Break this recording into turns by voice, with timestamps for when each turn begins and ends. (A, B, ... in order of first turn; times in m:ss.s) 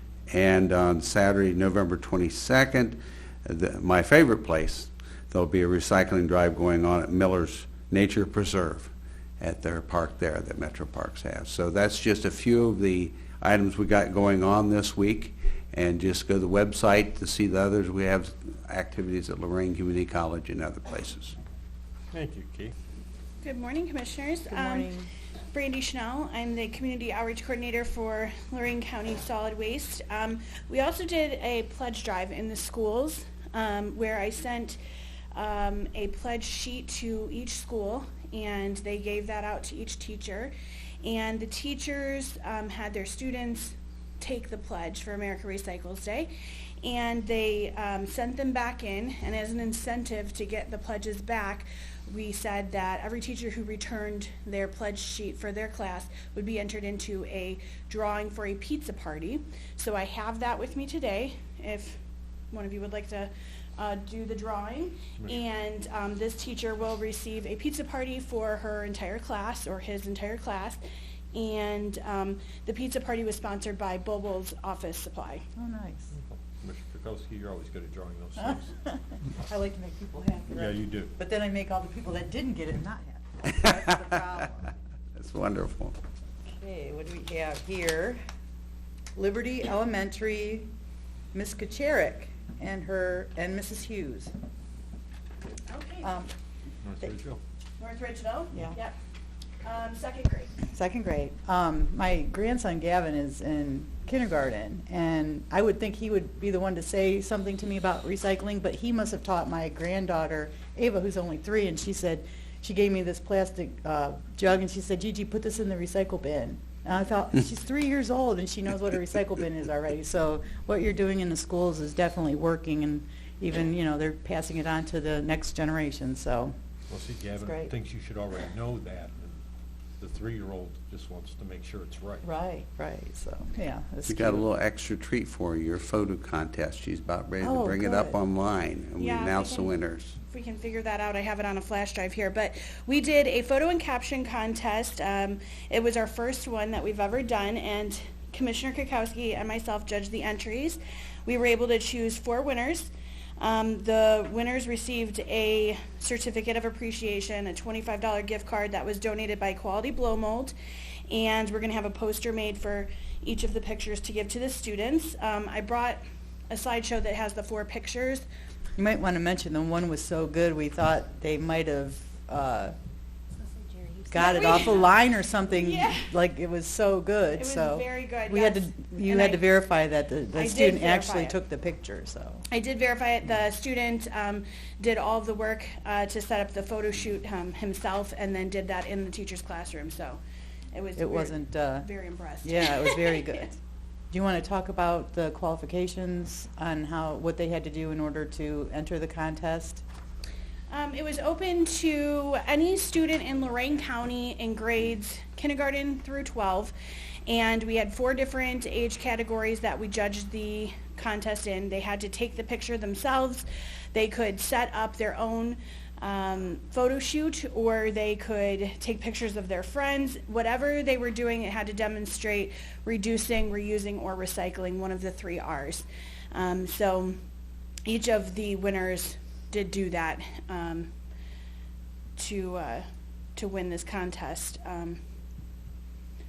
0:00.3-0:21.4 A
0:22.1-0:22.7 B
0:23.4-0:24.9 C
0:24.5-0:25.1 D
0:25.5-0:34.8 C
0:35.3-0:46.3 C
0:46.8-1:02.0 C
1:02.5-1:10.8 C
1:11.3-1:15.4 C
1:15.6-1:16.1 D
1:16.1-1:18.7 B
1:18.8-1:24.6 D
1:20.5-1:21.1 B
1:23.5-1:24.1 A
1:25.2-1:26.0 A
1:26.5-1:28.2 D
1:29.1-1:30.7 D
1:31.3-1:34.3 D
1:35.7-1:36.1 C
1:36.0-1:36.3 D
1:36.8-1:37.4 B
1:37.8-1:39.0 C
1:39.6-1:40.6 C
1:40.7-2:06.5 D
2:06.9-2:09.4 B
2:07.4-2:07.7 D
2:10.0-2:12.3 B
2:12.2-2:14.4 D
2:14.1-2:20.2 A
2:17.4-2:18.2 D
2:19.0-2:19.7 C
2:20.3-2:40.5 C
2:41.1-2:48.2 C
2:48.8-2:52.7 D
2:53.4-2:54.9 C
2:54.1-3:02.4 D
2:55.5-2:56.1 C
2:57.4-2:59.5 C
3:00.3-3:01.4 C
3:02.5-3:10.2 C
3:10.7-3:13.3 C
3:11.0-3:11.9 D
3:12.4-3:13.6 D
3:14.1-3:19.8 D
3:20.7-3:26.7 C
3:27.2-3:47.2 C
3:47.8-3:50.9 C
3:52.2-3:52.8 C
3:53.4-3:55.0 C